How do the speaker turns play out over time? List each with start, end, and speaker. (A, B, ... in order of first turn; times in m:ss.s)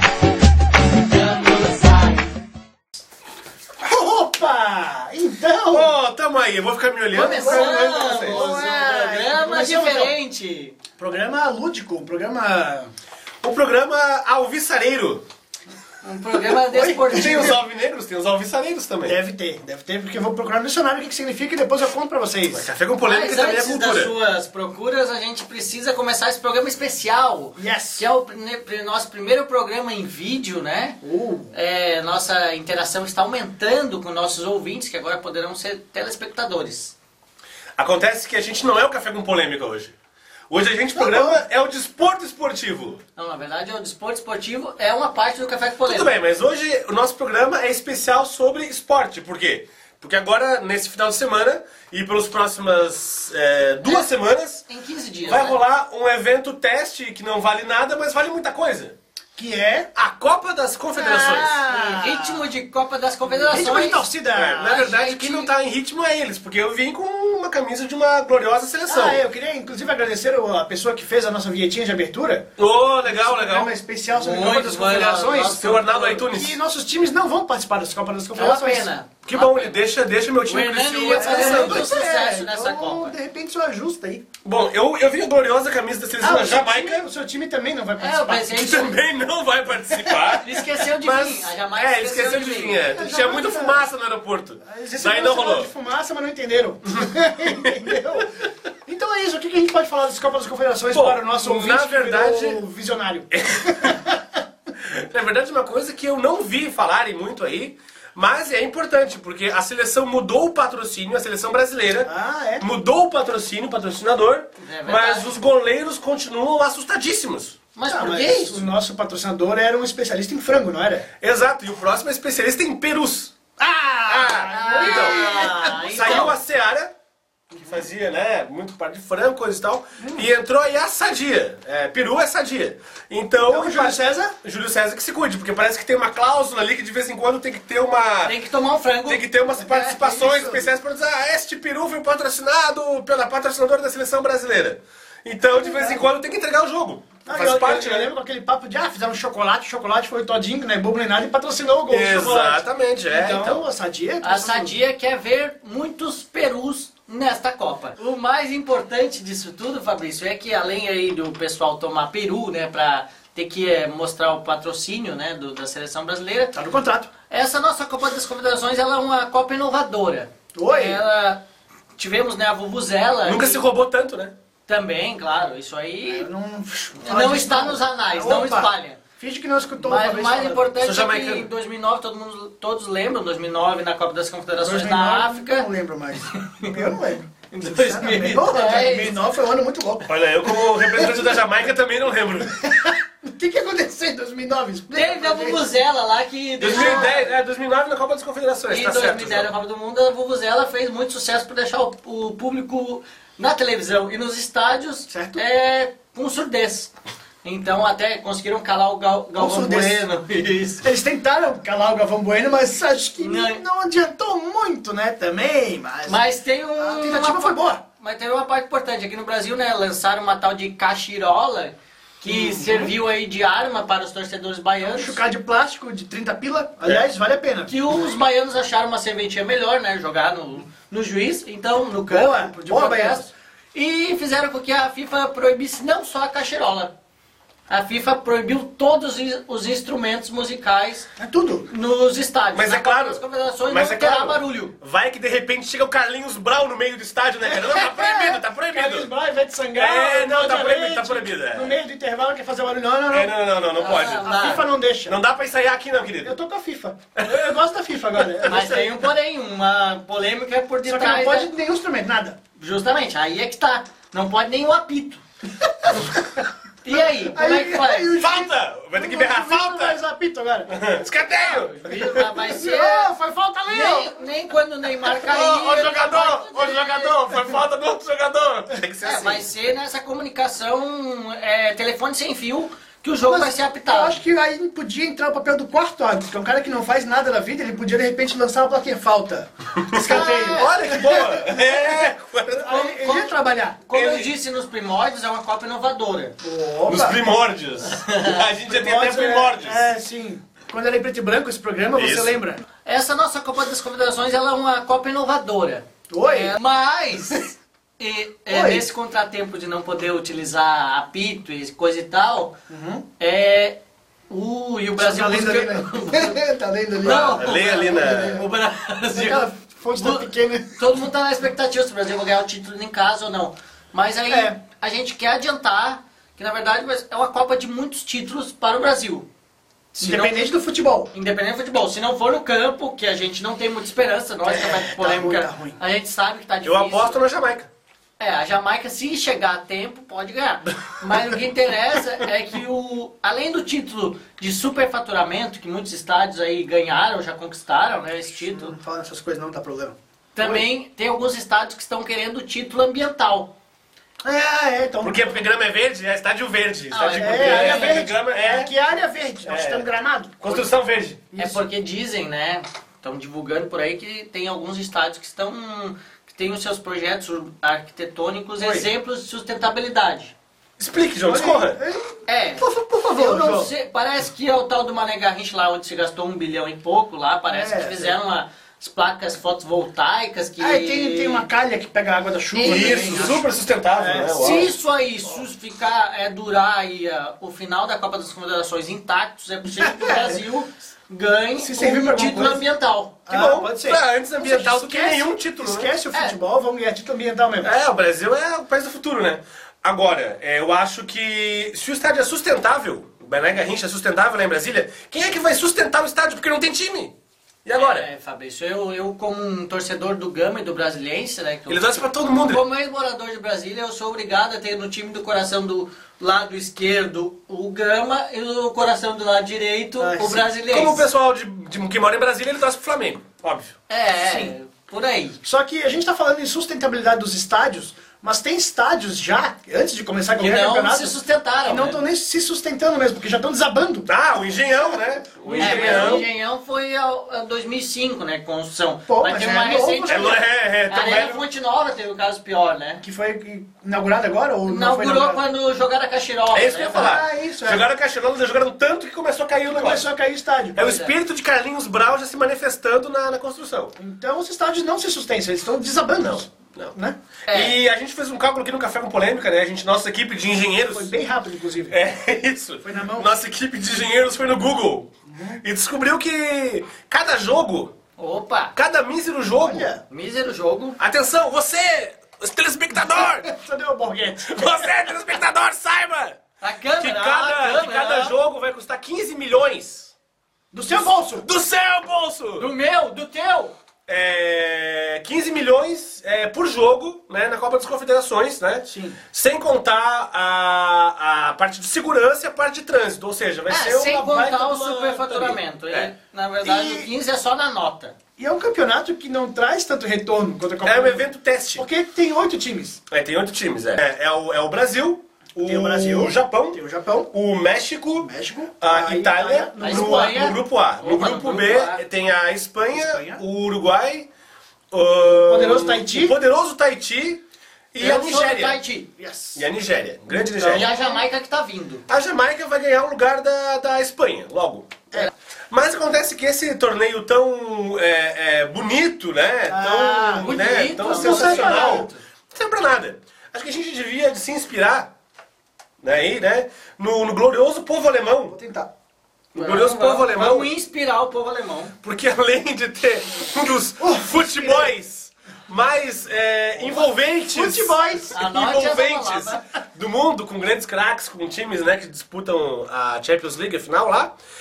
0:01.4-0:02.0 A
0:03.8-0:05.9 B
0:05.7-0:08.5 C
0:07.1-0:10.8 A
0:07.2-0:10.1 B
0:11.0-0:12.9 B
0:13.4-0:15.2 C
0:16.0-0:17.5 A
0:16.3-0:17.5 B
0:17.1-0:19.2 C
0:19.0-0:22.7 B
0:22.5-0:24.1 C
0:23.0-0:31.0 A
0:27.6-0:28.1 B
0:31.0-0:31.5 B
0:31.5-0:37.0 A
0:37.8-0:39.9 C
0:40.5-0:43.0 C
0:40.9-0:41.4 B
0:43.2-0:46.2 A
0:45.8-0:54.6 C
0:54.7-0:55.6 A
0:55.2-0:58.9 C
0:59.4-0:59.9 B
0:59.9-1:01.6 C
1:01.0-1:02.5 B
1:01.6-1:05.5 A
1:03.2-1:04.8 B
1:04.3-1:09.2 C
1:08.9-1:12.4 B
1:12.6-1:13.7 C
1:13.0-1:18.9 B
1:14.1-1:16.2 A
1:15.6-1:16.6 C
1:18.3-1:19.7 A
1:19.2-1:21.9 C
1:20.4-1:23.1 A
1:21.2-1:24.2 B
1:24.4-1:27.0 C
1:26.2-1:28.9 B
1:28.0-1:28.9 A
1:28.5-1:35.7 C
1:30.0-1:32.9 A
1:32.8-1:33.9 B
1:34.6-1:38.3 B
1:36.9-1:38.2 C
1:38.8-1:44.2 B
1:40.9-1:42.6 C
1:43.3-1:44.0 C
1:44.8-1:57.6 C
1:52.0-1:52.6 B
1:54.6-1:55.4 A
1:57.7-1:58.6 A
1:57.9-2:01.0 B
2:01.2-2:03.3 C
2:03.6-2:06.4 B
2:04.0-2:06.9 C
2:04.5-2:06.4 A
2:07.6-2:18.4 C
2:10.0-2:10.3 B
2:13.4-2:14.4 B
2:18.2-2:19.3 A
2:19.0-2:28.1 C
2:19.6-2:20.7 B
2:25.5-2:26.0 B
2:27.2-2:34.8 B
2:31.9-2:33.6 C
2:34.2-2:46.6 A
2:46.5-2:47.1 B
2:47.3-2:51.4 A
2:50.5-2:51.0 B
2:52.0-2:53.6 A
2:53.2-2:54.3 C
2:54.7-2:56.3 A
2:56.1-3:00.7 B
2:57.0-2:59.0 A
2:59.8-3:05.7 A
3:00.8-3:01.5 C
3:04.6-3:11.4 B
3:06.3-3:09.2 A
3:10.1-3:12.6 C
3:12.6-3:15.7 B
3:14.9-3:17.2 A
3:16.6-3:19.5 C
3:16.6-3:17.2 B
3:18.7-3:26.9 A
3:25.1-3:25.4 B
3:27.4-3:30.9 A
3:29.4-3:30.0 B
3:30.8-3:36.2 B
3:33.2-3:33.6 A
3:36.0-3:45.2 A
3:36.8-3:37.8 B
3:42.2-3:42.9 C
3:44.8-3:47.7 B
3:47.7-3:56.9 A
3:52.1-3:53.3 B
3:57.7-4:01.1 A
4:01.2-4:01.7 B
4:01.7-4:04.7 A
4:02.5-4:09.1 C
4:07.4-4:13.4 B
4:09.7-4:11.8 C
4:13.1-4:16.4 C
4:13.8-4:14.7 A
4:14.0-4:15.2 B
4:16.2-4:18.8 B
4:17.2-4:17.6 C
4:18.2-4:18.9 C
4:18.5-4:21.5 A
4:20.8-4:22.4 B
4:22.6-4:25.2 A
4:25.8-4:26.1 B
4:26.8-4:28.1 A
4:26.9-4:30.7 B
4:28.1-4:30.0 C
4:30.7-4:32.2 C
4:31.4-4:33.1 A
4:32.1-4:34.2 B
4:33.7-4:37.5 A
4:35.1-4:39.5 C
4:39.0-4:44.2 A
4:43.2-4:53.8 B
4:49.9-4:52.9 C
4:50.0-4:50.8 A
4:52.7-4:53.3 A
4:53.9-4:56.3 A
4:53.9-4:54.3 C
4:56.4-4:57.2 B
4:56.9-4:59.9 C
4:57.9-4:58.4 A
4:58.7-5:02.6 B
5:01.9-5:02.4 C
5:02.8-5:12.6 A
5:06.1-5:06.5 B
5:08.5-5:08.8 B
5:12.7-5:13.0 B
5:13.2-5:13.8 A
5:14.3-5:16.4 A
5:15.0-5:18.4 B
5:17.0-5:29.3 A
5:17.3-5:18.4 C
5:19.1-5:20.7 B
5:24.3-5:24.6 B
5:29.9-5:31.1 B
5:30.0-5:30.4 A
5:31.1-5:37.2 A
5:34.5-5:35.8 B
5:36.6-5:37.7 C
5:38.2-5:48.7 A
5:48.5-5:50.6 B
5:50.4-5:53.5 A
5:54.2-5:55.4 B
5:55.0-5:58.7 C
5:56.9-5:58.1 A
5:57.2-6:00.7 B
5:59.4-5:59.9 C
6:00.4-6:01.2 C
6:01.3-6:01.6 B
6:01.4-6:10.3 A
6:08.6-6:08.9 B
6:10.8-6:11.8 C
6:11.2-6:13.7 B
6:12.3-6:21.5 A
6:17.4-6:18.2 B
6:20.6-6:24.7 B
6:22.5-6:23.4 A
6:22.6-6:24.7 C
6:24.4-6:33.2 A
6:29.8-6:30.4 B
6:31.6-6:32.6 B
6:31.8-6:32.5 C
6:33.3-6:37.7 B
6:33.3-6:35.9 C
6:37.6-6:47.1 C
6:47.6-6:48.1 C
6:47.7-7:01.1 A
6:51.7-6:52.6 C
7:00.0-7:00.5 B
7:00.7-7:03.7 C
7:03.9-7:05.4 A
7:04.1-7:04.5 B
7:05.4-7:14.8 B
7:10.4-7:12.0 A
7:14.1-7:16.2 C
7:15.4-7:16.3 B
7:15.6-7:23.0 A
7:19.1-7:20.4 B
7:20.1-7:21.4 C
7:23.0-7:25.4 B
7:24.6-7:27.2 A
7:26.5-7:30.1 C
7:26.9-7:27.8 B
7:29.6-7:30.8 B
7:30.7-7:33.9 C
7:30.8-7:31.1 A
7:34.0-7:37.1 B
7:36.2-7:36.9 C
7:37.5-7:37.8 A
7:37.5-7:41.1 C
7:40.9-7:42.0 B
7:41.9-7:45.1 C
7:42.8-7:43.3 B
7:45.3-7:45.6 B
7:45.6-7:47.9 C
7:48.2-7:48.7 A
7:48.7-7:49.9 C
7:49.6-7:50.0 B
7:50.1-7:51.0 A
7:51.0-7:53.5 C
7:53.1-7:54.9 B
7:54.4-7:56.4 C
7:56.6-7:58.4 A
7:57.0-8:00.1 C
8:00.7-8:01.4 B
8:00.9-8:02.7 C
8:02.6-8:03.7 A
8:04.1-8:16.1 C
8:08.9-8:09.2 B
8:13.7-8:18.1 A
8:16.6-8:17.1 B
8:18.4-8:23.0 B
8:20.8-8:21.8 C
8:23.1-8:26.8 C
8:25.6-8:27.3 B
8:27.3-8:28.3 C
8:28.2-8:30.6 B
8:28.8-8:34.3 C
8:29.8-8:32.0 A
8:32.9-8:33.4 B
8:34.9-8:37.4 C
8:35.4-8:36.4 B
8:37.9-8:38.8 C
8:38.0-8:39.1 A
8:39.2-8:39.6 B
8:39.5-8:40.9 C
8:40.5-8:41.2 B
8:40.6-8:42.0 A
8:42.1-8:55.1 C
8:49.7-8:52.1 B
8:50.4-8:52.2 A
8:56.0-8:58.6 C
8:58.5-8:58.9 B
8:59.5-9:00.7 C
8:59.6-9:01.9 A
9:02.0-9:14.3 C
9:04.0-9:04.9 B
9:06.8-9:08.3 B
9:08.3-9:09.6 A